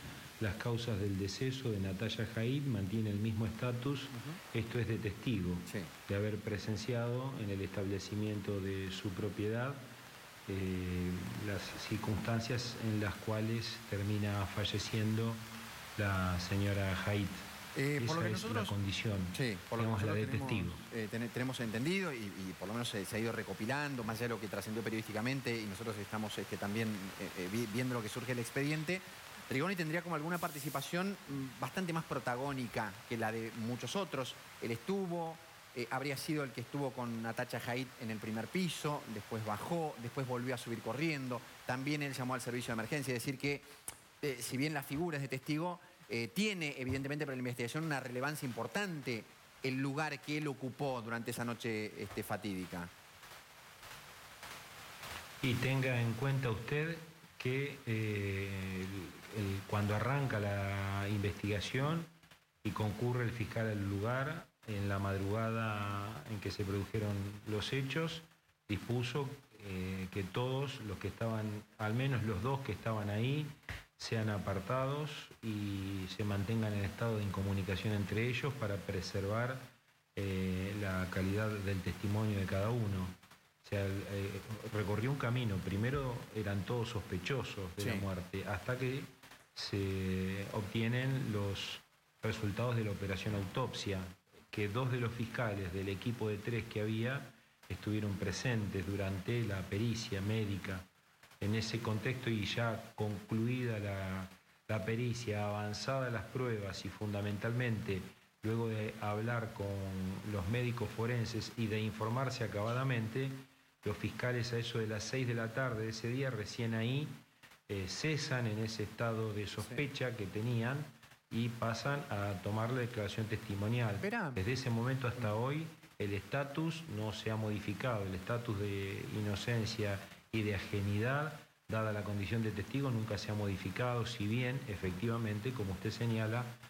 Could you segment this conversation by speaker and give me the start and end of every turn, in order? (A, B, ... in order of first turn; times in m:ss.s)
0:00.4-0:09.9 A
0:04.1-0:04.4 B
0:10.5-0:15.4 A
0:16.0-0:17.4 A
0:17.8-0:18.8 B
0:18.0-0:20.8 A
0:19.3-0:52.9 B
0:55.4-1:02.1 A
1:02.6-1:40.9 A
1:27.8-1:28.0 B
1:41.4-2:16.6 A
1:59.6-1:59.8 B
2:04.0-2:04.4 B